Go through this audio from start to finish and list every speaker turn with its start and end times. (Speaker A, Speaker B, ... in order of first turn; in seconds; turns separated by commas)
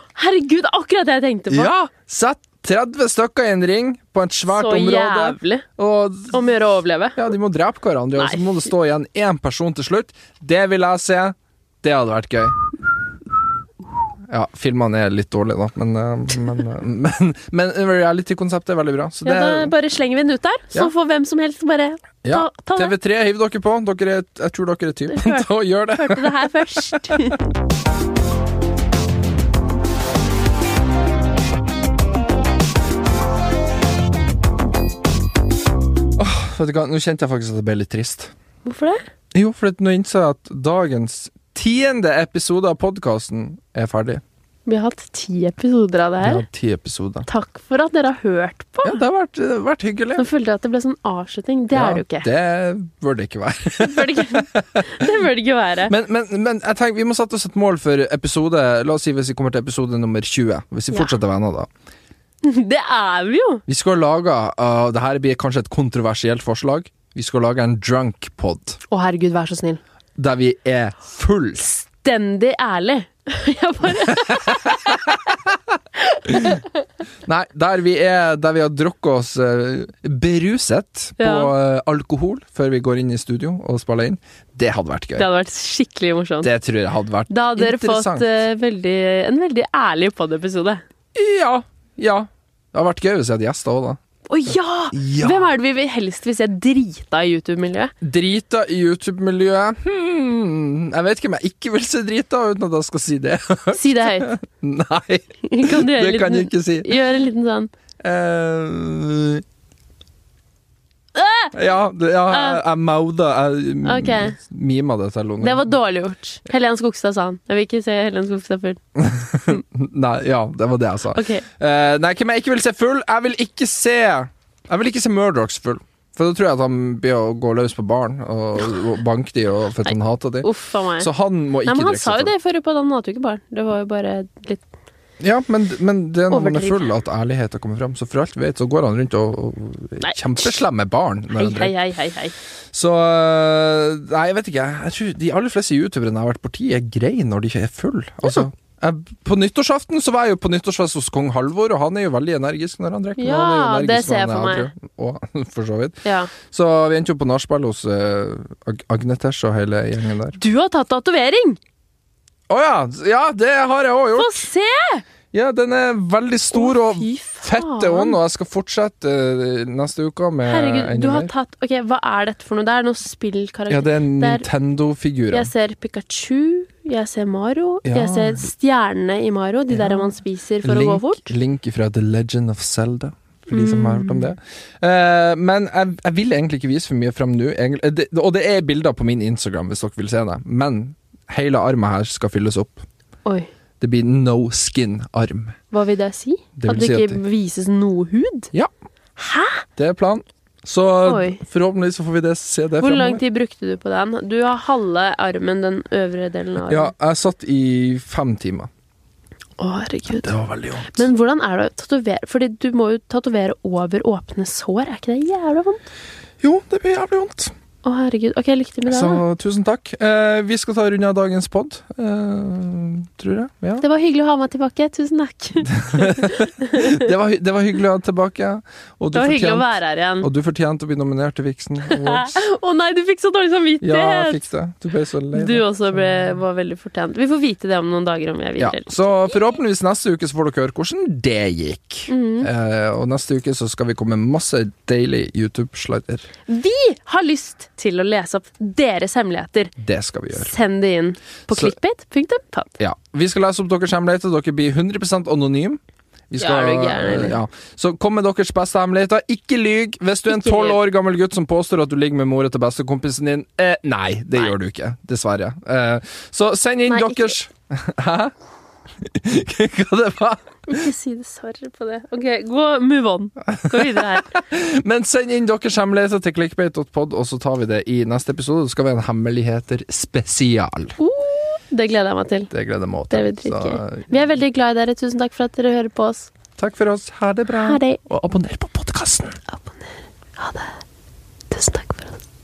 Speaker A: 0.1-1.7, Speaker B: 1.5-6.4, Speaker A: 4.5-5.7, Speaker A: 6.3-7.2, Speaker B: 7.2-12.6, Speaker A: 8.2-8.4, Speaker B: 14.3-19.7, Speaker A: 19.2-22.9, Speaker B: 22.2-27.0, Speaker A: 25.1-27.5, Speaker B: 36.2-38.3, Speaker A: 38.6-39.0, Speaker B: 39.3-44.2, Speaker A: 44.6-46.4, Speaker B: 46.2-47.3, Speaker A: 47.3-49.0, Speaker B: 48.8-50.2, Speaker A: 50.1-52.3, Speaker B: 51.7-55.2, Speaker A: 53.8-55.9, Speaker B: 55.9-61.7, Speaker A: 62.4-63.6, Speaker B: 63.7-68.8, Speaker A: 68.9-69.8, Speaker B: 70.2-71.7, Speaker A: 71.6-75.2, Speaker B: 74.0-75.5, Speaker A: 76.1-76.7, Speaker B: 76.2-76.6, Speaker B: 77.2-85.3, Speaker A: 81.2-81.5, Speaker A: 85.2-86.5, Speaker B: 86.4-88.3, Speaker A: 87.3-90.8, Speaker B: 91.1-94.0, Speaker A: 94.3-97.9, Speaker B: 94.9-95.5, Speaker B: 98.0-107.0, Speaker A: 103.7-104.3, Speaker A: 105.4-107.7, Speaker B: 108.0-109.4, Speaker A: 111.1-111.5, Speaker B: 111.5-115.7, Speaker A: 112.3-112.6, Speaker A: 113.8-114.4, Speaker A: 115.4-118.8, Speaker B: 119.0-132.3, Speaker A: 121.1-121.4, Speaker A: 129.8-131.1, Speaker A: 131.7-134.6, Speaker B: 135.2-141.7, Speaker A: 136.3-136.9, Speaker A: 140.0-140.6, Speaker A: 141.3-142.3, Speaker B: 142.7-160.4, Speaker A: 153.2-154.7, Speaker A: 156.0-156.3, Speaker A: 160.3-161.6, Speaker B: 162.5-164.5, Speaker A: 164.2-165.0, Speaker B: 165.3-171.3, Speaker A: 166.5-168.2, Speaker A: 170.4-174.4, Speaker B: 173.7-175.5, Speaker A: 175.3-181.2, Speaker B: 177.8-178.5, Speaker B: 179.7-180.1, Speaker B: 180.6-192.8, Speaker A: 183.5-184.3, Speaker B: 193.8-195.6, Speaker A: 195.7-198.5, Speaker B: 196.6-197.2, Speaker A: 199.2-199.6, Speaker B: 199.8-203.2, Speaker A: 201.1-201.4, Speaker A: 202.8-206.9, Speaker B: 206.7-208.7, Speaker A: 209.6-210.3, Speaker B: 210.1-211.1, Speaker A: 210.9-215.8, Speaker B: 216.4-217.5, Speaker A: 217.8-219.2, Speaker B: 218.9-223.8, Speaker A: 223.8-227.1, Speaker B: 225.6-229.7, Speaker A: 229.1-230.3, Speaker B: 230.2-232.4, Speaker A: 231.9-234.4, Speaker B: 233.8-236.2, Speaker A: 235.3-239.3, Speaker B: 238.6-246.3, Speaker A: 242.1-242.5, Speaker A: 246.5-249.7, Speaker B: 249.8-250.5, Speaker A: 250.3-252.7, Speaker B: 252.8-268.3, Speaker A: 256.4-257.4, Speaker A: 260.3-260.8, Speaker A: 266.9-267.3, Speaker B: 269.0-270.9, Speaker A: 270.7-274.3, Speaker B: 273.4-281.0, Speaker A: 281.0-282.5, Speaker B: 282.5-284.1, Speaker A: 283.1-286.3, Speaker B: 286.6-289.4, Speaker A: 287.5-288.0, Speaker A: 289.5-290.8, Speaker A: 291.5-292.2